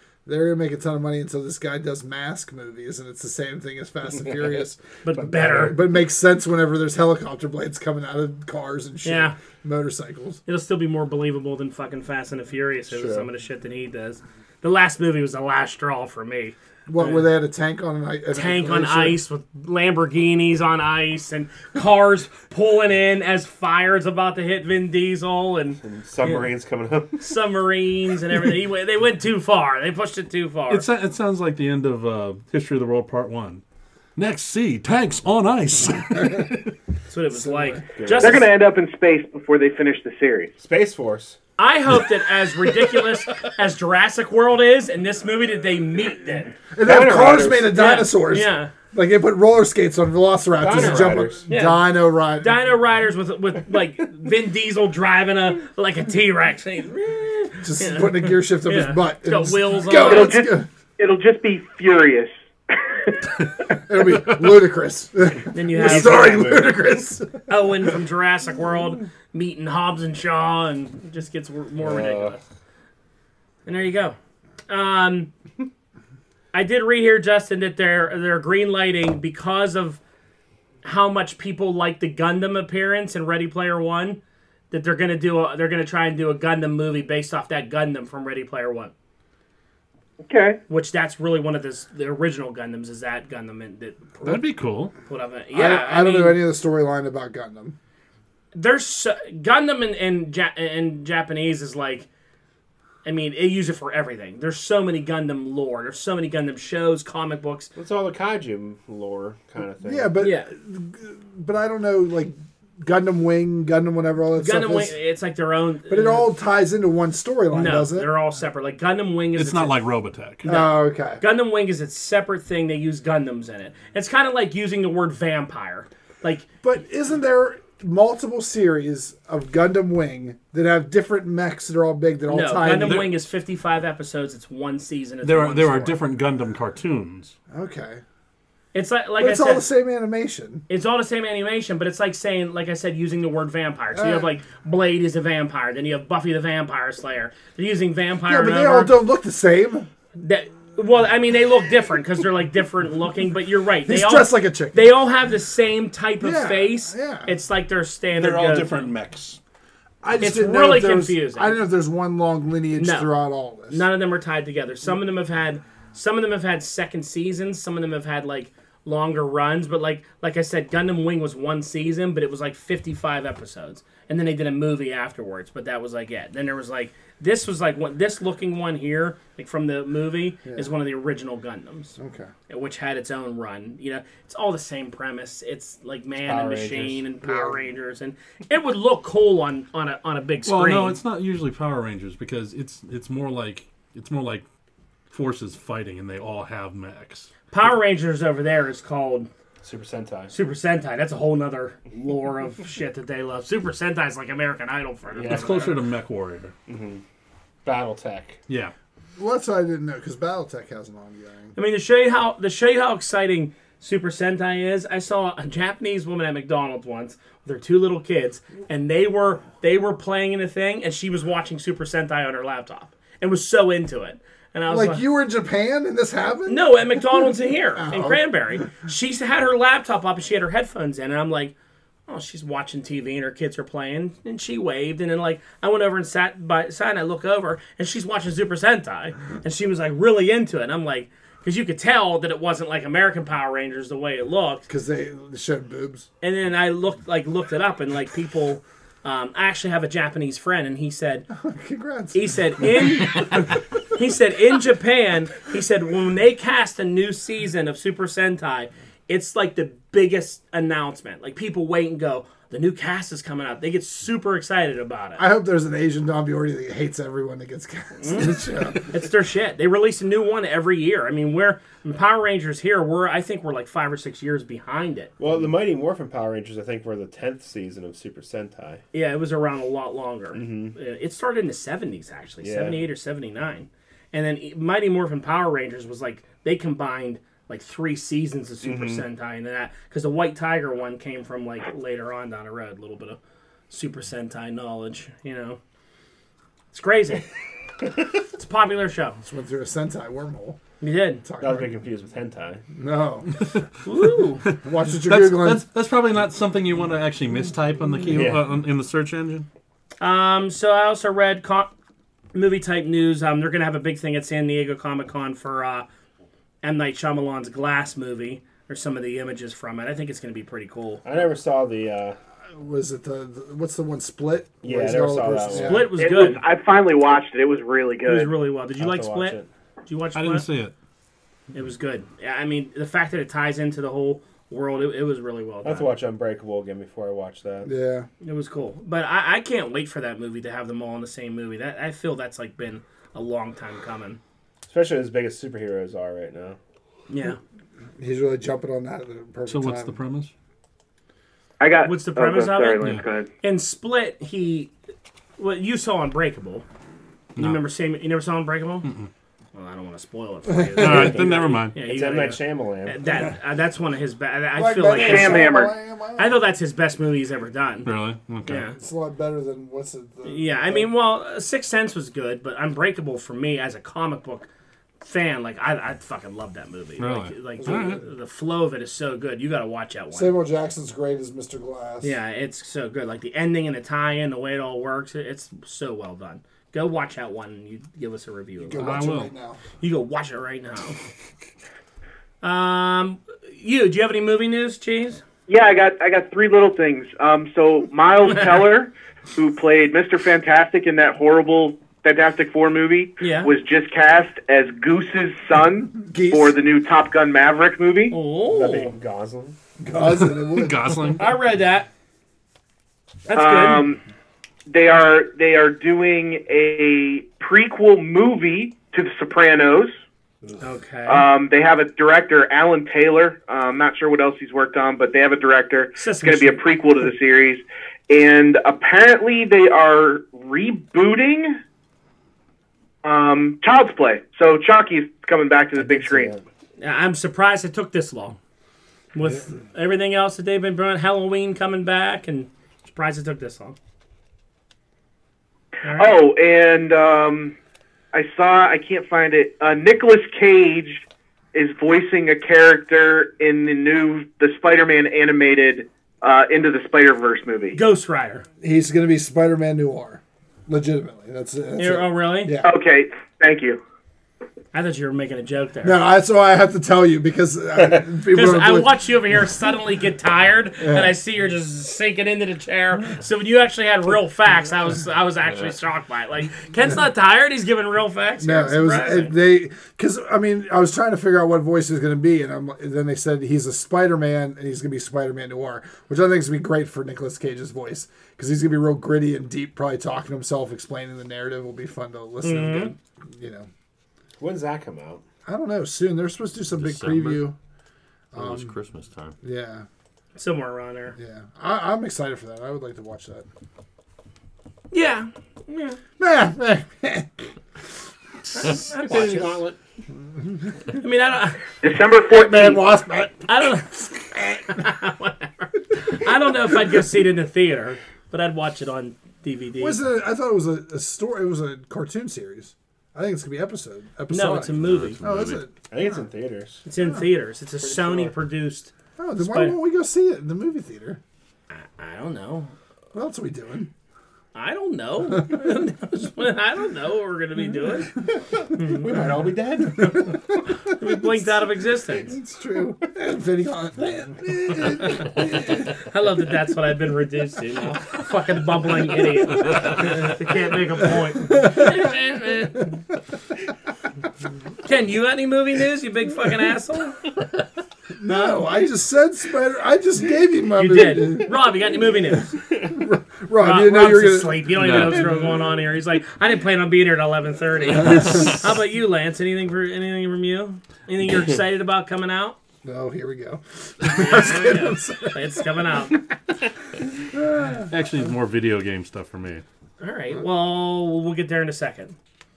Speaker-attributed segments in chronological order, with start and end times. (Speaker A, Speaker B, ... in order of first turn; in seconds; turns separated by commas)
Speaker A: 0.3-10.4, Speaker B: 5.0-5.8, Speaker C: 5.2-5.7, Speaker B: 9.0-9.3, Speaker B: 10.5-17.3, Speaker C: 12.9-13.3, Speaker A: 16.9-19.2, Speaker B: 18.3-26.5, Speaker C: 25.8-27.3, Speaker B: 27.2-30.9, Speaker D: 30.7-33.6, Speaker D: 34.2-36.7, Speaker B: 37.1-38.5, Speaker A: 37.3-37.8, Speaker C: 38.0-38.5, Speaker E: 38.2-40.5, Speaker C: 40.6-41.4, Speaker B: 41.6-46.6, Speaker A: 46.7-52.6, Speaker C: 46.8-47.8, Speaker B: 47.7-48.7, Speaker C: 50.5-51.5, Speaker B: 51.5-60.4, Speaker A: 57.6-60.7, Speaker E: 60.0-63.2, Speaker A: 63.8-67.5, Speaker B: 65.5-66.6, Speaker C: 65.7-66.8, Speaker B: 67.5-72.4, Speaker C: 71.8-72.4, Speaker B: 73.7-74.2, Speaker B: 74.7-75.3, Speaker B: 76.5-80.0, Speaker B: 80.8-84.2, Speaker B: 84.7-88.9, Speaker E: 90.3-90.6, Speaker B: 90.7-94.5, Speaker D: 94.2-94.9, Speaker B: 95.0-96.4, Speaker A: 95.5-97.8, Speaker B: 98.5-102.1, Speaker B: 103.0-107.7, Speaker C: 107.8-110.1, Speaker A: 109.8-115.0, Speaker B: 110.2-110.5, Speaker B: 114.4-116.3, Speaker A: 115.9-118.2, Speaker B: 117.5-119.8, Speaker D: 119.3-120.5, Speaker A: 120.5-121.2, Speaker B: 120.5-126.5, Speaker A: 126.6-133.1, Speaker B: 132.3-136.0, Speaker D: 132.8-133.2, Speaker D: 135.2-137.4, Speaker A: 137.5-138.0, Speaker B: 138.7-139.7, Speaker A: 139.2-140.7, Speaker B: 140.7-149.0, Speaker A: 143.9-144.3, Speaker A: 148.3-149.9, Speaker B: 150.2-158.9, Speaker A: 153.8-155.0, Speaker A: 156.2-157.3, Speaker D: 158.1-159.4, Speaker A: 160.0-163.9, Speaker B: 160.2-161.6, Speaker B: 162.8-163.1, Speaker B: 163.7-182.0, Speaker A: 180.5-180.7, Speaker A: 182.0-182.3, Speaker B: 182.5-191.0, Speaker C: 186.2-187.1, Speaker A: 187.2-187.6, Speaker D: 190.4-194.4, Speaker D: 195.1-197.3, Speaker B: 197.5-199.3, Speaker C: 199.6-200.3, Speaker B: 200.3-205.8, Speaker C: 205.2-205.8, Speaker D: 205.3-206.5, Speaker C: 206.7-207.0, Speaker C: 207.7-208.4, Speaker D: 208.5-208.7, Speaker A: 209.2-211.6, Speaker B: 211.6-225.0, Speaker A: 224.7-228.2, Speaker B: 226.5-231.5, Speaker B: 232.1-244.7, Speaker A: 244.7-246.1, Speaker B: 246.2-251.3, Speaker A: 251.3-253.0, Speaker B: 252.1-265.2, Speaker A: 265.2-268.9, Speaker B: 268.0-275.1, Speaker C: 275.2-278.8, Speaker B: 278.9-293.2, Speaker C: 280.4-280.8, Speaker C: 282.4-282.8, Speaker C: 288.6-289.1, Speaker B: 293.7-295.6, Speaker B: 296.7-297.2, Speaker B: 298.3-299.2, Speaker A: 299.2-300.6, Speaker B: 300.8-301.2, Speaker A: 301.2-301.8, Speaker C: 301.4-302.6, Speaker A: 302.8-303.5, Speaker B: 303.8-304.4, Speaker D: 304.5-309.5, Speaker A: 304.6-305.6, Speaker C: 308.1-308.5, Speaker B: 310.0-311.7, Speaker B: 312.3-315.9, Speaker B: 316.6-321.0, Speaker C: 321.0-322.2, Speaker A: 322.5-325.9, Speaker C: 324.6-325.9, Speaker B: 325.5-326.4, Speaker E: 325.9-328.4, Speaker B: 328.1-330.5, Speaker C: 328.8-329.5, Speaker D: 330.1-330.7, Speaker B: 331.5-335.9, Speaker C: 335.6-337.7, Speaker A: 337.6-338.1, Speaker B: 338.2-344.2, Speaker C: 344.7-346.6, Speaker B: 347.1-347.4, Speaker A: 348.0-350.0, Speaker D: 349.5-350.3, Speaker E: 351.6-353.3, Speaker B: 351.8-354.7, Speaker B: 355.4-356.6, Speaker D: 357.4-357.6, Speaker B: 357.4-358.9, Speaker D: 358.8-359.1, Speaker B: 359.5-367.9, Speaker A: 360.5-361.1, Speaker D: 360.8-361.8, Speaker C: 360.9-363.0, Speaker A: 364.6-366.4, Speaker E: 364.9-365.7, Speaker D: 367.9-368.6, Speaker B: 368.4-368.8, Speaker A: 368.6-370.9, Speaker B: 370.2-374.5, Speaker B: 375.0-380.4, Speaker D: 377.0-378.0, Speaker A: 377.6-378.0, Speaker A: 380.1-382.2, Speaker B: 382.0-389.1, Speaker A: 388.6-389.6, Speaker D: 388.8-389.3, Speaker B: 389.8-391.0, Speaker B: 392.4-395.2, Speaker E: 395.5-408.1, Speaker B: 403.2-403.5, Speaker A: 406.0-406.6, Speaker B: 408.1-408.9, Speaker C: 408.5-409.6, Speaker A: 409.8-411.2, Speaker D: 410.4-411.4, Speaker B: 411.2-411.9, Speaker B: 413.3-413.9, Speaker E: 413.3-414.0, Speaker E: 414.7-419.9, Speaker B: 420.6-421.2, Speaker E: 421.1-431.6, Speaker B: 426.0-426.6, Speaker E: 433.0-436.3, Speaker C: 435.8-436.4, Speaker B: 436.8-438.4, Speaker B: 439.1-443.8, Speaker B: 445.8-446.1, Speaker E: 445.9-447.6, Speaker E: 448.1-457.8, Speaker B: 457.7-458.4, Speaker A: 458.6-462.7, Speaker B: 461.8-462.6, Speaker E: 462.6-463.8, Speaker B: 464.7-466.0, Speaker A: 465.8-468.9, Speaker B: 468.3-479.3, Speaker A: 470.8-471.1, Speaker A: 478.4-493.7, Speaker B: 492.4-492.9, Speaker C: 494.4-495.2, Speaker A: 495.5-497.6, Speaker F: 496.7-497.5, Speaker A: 498.3-498.7, Speaker F: 498.3-499.4, Speaker A: 499.4-499.9, Speaker B: 500.4-501.2, Speaker A: 501.2-503.5, Speaker B: 504.9-506.0, Speaker A: 506.2-507.5, Speaker B: 508.5-509.6, Speaker C: 508.8-509.8, Speaker A: 510.4-510.7, Speaker B: 510.9-511.7, Speaker E: 511.8-512.8, Speaker A: 512.3-514.8, Speaker B: 513.5-514.0, Speaker B: 514.7-520.0, Speaker A: 519.8-525.7, Speaker B: 524.3-525.2, Speaker F: 524.7-525.6, Speaker C: 525.9-526.8, Speaker B: 526.9-529.8, Speaker A: 527.0-527.3, Speaker C: 527.8-528.3, Speaker A: 529.2-531.2, Speaker B: 531.7-532.7, Speaker A: 533.1-533.9, Speaker B: 534.5-538.2, Speaker C: 538.6-540.4, Speaker B: 538.8-539.1, Speaker B: 540.9-542.4, Speaker A: 541.0-541.7, Speaker A: 542.2-545.9, Speaker B: 544.8-552.9, Speaker A: 551.5-552.1, Speaker B: 554.8-557.3, Speaker A: 558.2-561.6, Speaker B: 560.8-562.5, Speaker A: 562.8-565.1, Speaker B: 563.6-572.6, Speaker F: 564.8-565.3, Speaker A: 572.8-575.7, Speaker B: 574.0-576.2, Speaker A: 577.3-577.9, Speaker D: 577.9-579.6, Speaker B: 580.0-582.2